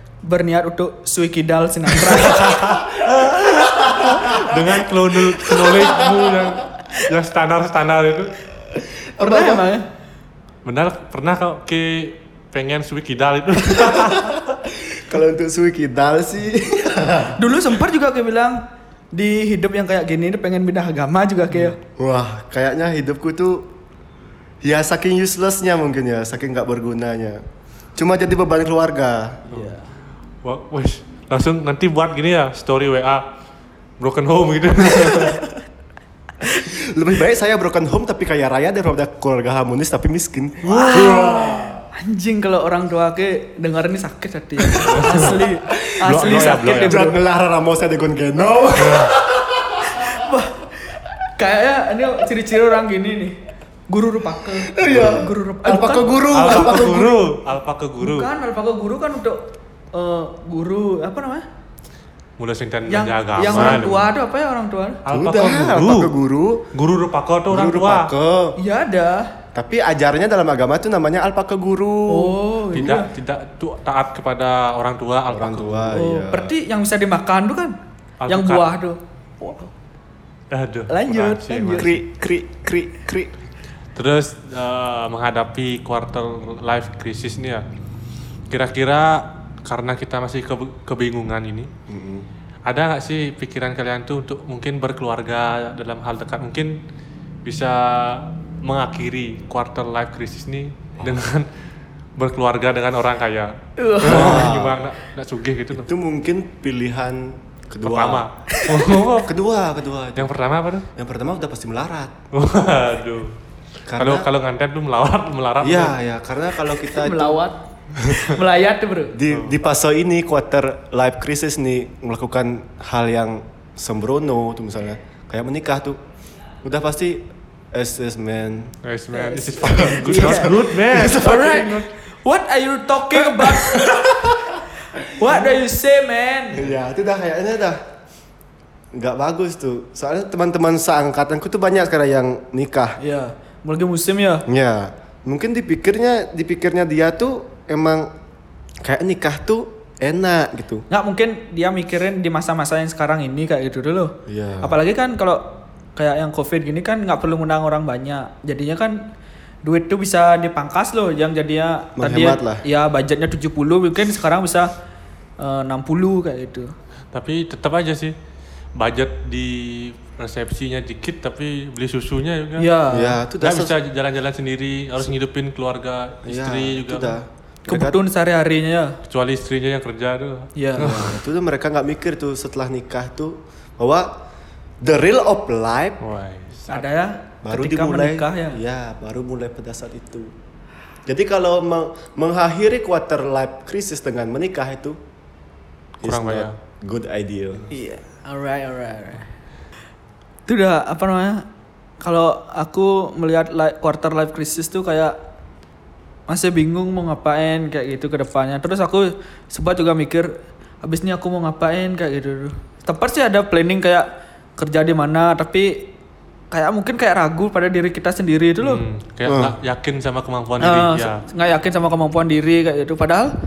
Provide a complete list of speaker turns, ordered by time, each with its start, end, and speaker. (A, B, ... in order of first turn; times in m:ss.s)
0:00.2-0:02.8 A
0:02.2-0:08.4 B
0:03.9-0:04.4 C
0:05.8-0:06.2 C
0:09.2-0:09.7 C
0:09.2-0:09.8 A
0:10.6-0:14.5 B
0:13.7-0:17.4 C
0:17.4-0:18.6 A
0:19.1-0:21.8 A
0:22.0-0:23.7 C
0:24.6-0:27.4 C
0:28.0-0:29.4 C
0:29.5-0:29.8 B
0:29.5-0:29.9 A
0:30.4-0:33.2 B
0:34.0-0:35.5 B
0:36.6-0:41.8 C
0:40.6-0:41.5 B
0:40.7-0:47.0 A
0:44.7-0:45.5 B
0:45.7-0:50.1 C
0:46.0-0:47.2 B
0:48.8-0:49.1 B
0:49.8-0:50.7 A
0:51.4-0:53.4 A
0:53.9-0:57.3 A
0:54.6-0:57.2 C
0:56.3-0:58.3 B
0:58.0-1:01.4 A
1:02.4-1:04.1 B
1:02.9-1:05.0 A
1:03.4-1:04.0 C
1:05.0-1:06.2 B
1:05.1-1:06.6 C
1:06.7-1:08.1 B
1:07.5-1:08.6 C
1:08.6-1:09.3 A
1:09.5-1:12.9 C
1:12.1-1:13.1 A
1:12.7-1:16.0 B
1:15.3-1:16.5 C
1:15.9-1:17.7 A
1:18.2-1:18.6 B
1:18.3-1:19.7 A
1:20.5-1:22.0 B
1:20.9-1:22.0 A
1:21.7-1:23.3 C
1:23.9-1:27.6 B
1:28.5-1:31.7 B
1:31.9-1:32.3 C
1:32.6-1:36.8 B
1:37.4-1:41.5 B
1:42.2-1:45.9 B
1:43.8-1:44.5 A
1:44.0-1:44.8 C
1:45.7-1:48.3 C
1:47.8-1:49.4 B
1:48.5-1:48.9 A
1:49.2-1:50.4 C
1:50.2-1:50.9 B
1:51.0-1:52.1 C
1:52.3-1:53.3 B
1:53.9-1:54.3 C
1:54.0-1:56.0 B
1:55.6-1:57.4 C
1:56.7-1:59.2 A
1:58.0-1:58.3 C
1:59.1-2:06.0 C
1:59.3-1:59.6 B
2:06.6-2:08.7 C
2:08.8-2:11.9 B
2:09.1-2:14.3 A
2:09.6-2:11.6 C
2:13.1-2:14.5 C
2:15.0-2:16.6 A
2:16.5-2:17.8 C
2:18.9-2:23.0 C
2:23.0-2:24.4 A
2:24.5-2:28.1 C
2:28.8-2:30.8 C
2:30.9-2:35.4 A
2:34.2-2:34.7 C
2:35.9-2:39.0 A
2:39.6-2:44.7 A
2:42.0-2:42.6 C
2:45.4-2:46.7 A
2:47.1-2:48.2 B
2:48.7-2:52.6 B
2:52.6-2:53.2 A
2:52.9-2:53.7 C
2:53.4-2:57.2 B
2:56.2-2:58.0 C
2:57.7-2:59.0 A
2:59.0-3:01.2 B
3:00.6-3:00.9 A
3:00.8-3:04.1 C
3:04.8-3:06.0 C
3:06.0-3:06.9 B
3:06.7-3:08.6 A
3:07.4-3:10.3 C
3:11.0-3:15.0 C
3:16.0-3:17.7 C
3:16.0-3:16.6 B
3:17.7-3:19.3 A
3:20.5-3:21.4 A
3:22.0-3:25.1 A
3:26.3-3:30.3 A
3:30.8-3:34.0 A
3:34.6-3:35.9 A
3:36.5-3:38.8 A
3:38.6-3:41.2 B
3:39.2-3:39.6 C
3:40.6-3:43.3 A